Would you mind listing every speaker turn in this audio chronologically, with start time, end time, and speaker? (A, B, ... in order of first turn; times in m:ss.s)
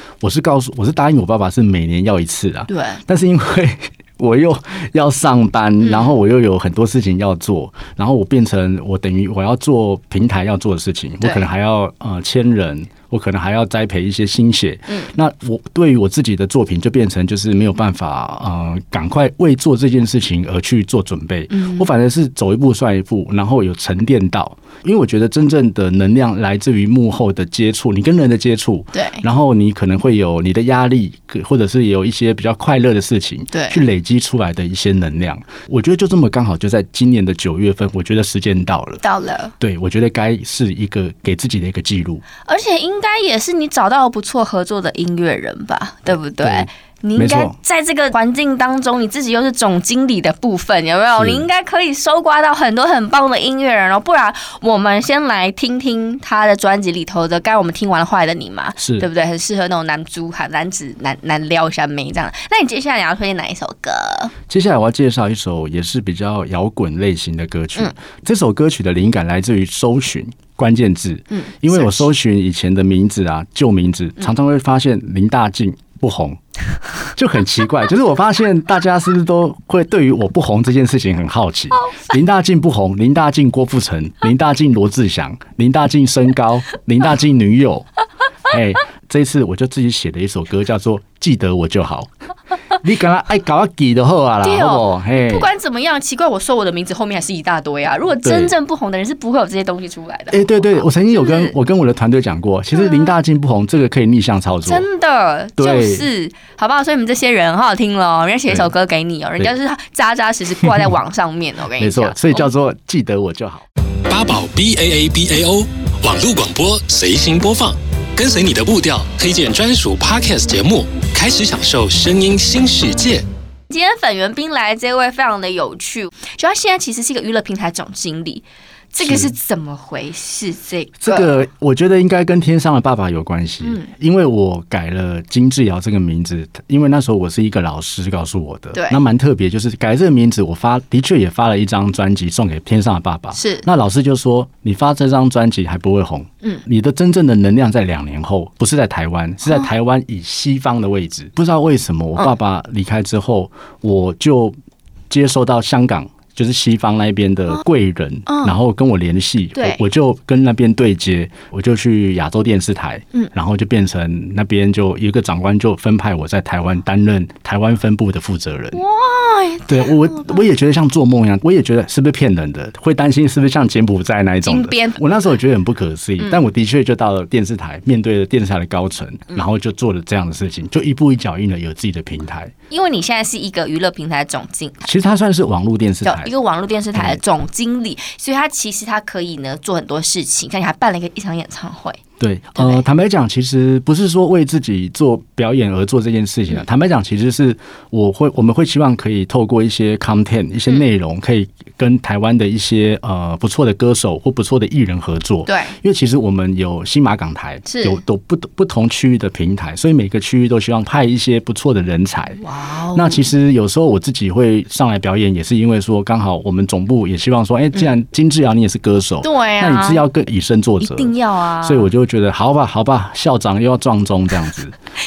0:00.2-0:39.0 A
0:02.7-0:03.0 B
0:05.8-0:06.2 B
0:11.2-0:11.5 B
0:21.5-0:21.9 B
0:28.9-0:29.2 B
0:33.5-0:33.8 B
0:39.0-0:39.5 B
0:39.6-0:42.2 A
0:42.4-1:04.3 B
0:46.4-0:47.6 A
0:51.2-0:51.5 A
0:58.8-0:59.1 A
1:04.5-1:16.4 A
1:11.3-1:12.1 B
1:17.2-1:27.9 A
1:28.5-1:32.1 A
1:32.8-1:35.5 A
1:34.4-1:41.6 B
1:38.2-1:38.6 A
1:40.3-1:44.9 A
1:42.7-1:43.2 B
1:44.7-1:52.5 B
1:45.6-1:46.1 A
1:48.5-1:48.7 A
1:51.8-1:53.6 A
1:54.1-2:03.3 C
2:03.7-2:11.4 B
2:09.0-2:09.3 A
2:11.0-2:34.6 A
2:13.6-2:13.9 B
2:18.7-2:19.0 B
2:23.3-2:23.7 B
2:29.4-2:29.7 B
2:35.1-2:48.8 A
2:38.3-2:38.6 B
2:39.6-2:39.8 B
2:48.7-2:50.4 B
2:49.7-3:02.5 A
2:54.4-2:55.0 B
3:02.7-3:04.9 B
3:04.8-3:06.3 A
3:06.0-3:12.0 B
3:06.9-3:07.2 A
3:12.2-3:44.8 A
3:12.6-3:12.9 B
3:25.5-3:25.8 B
3:27.7-3:28.0 B
3:32.4-3:33.3 B
3:39.2-3:40.1 B
3:40.8-3:41.9 B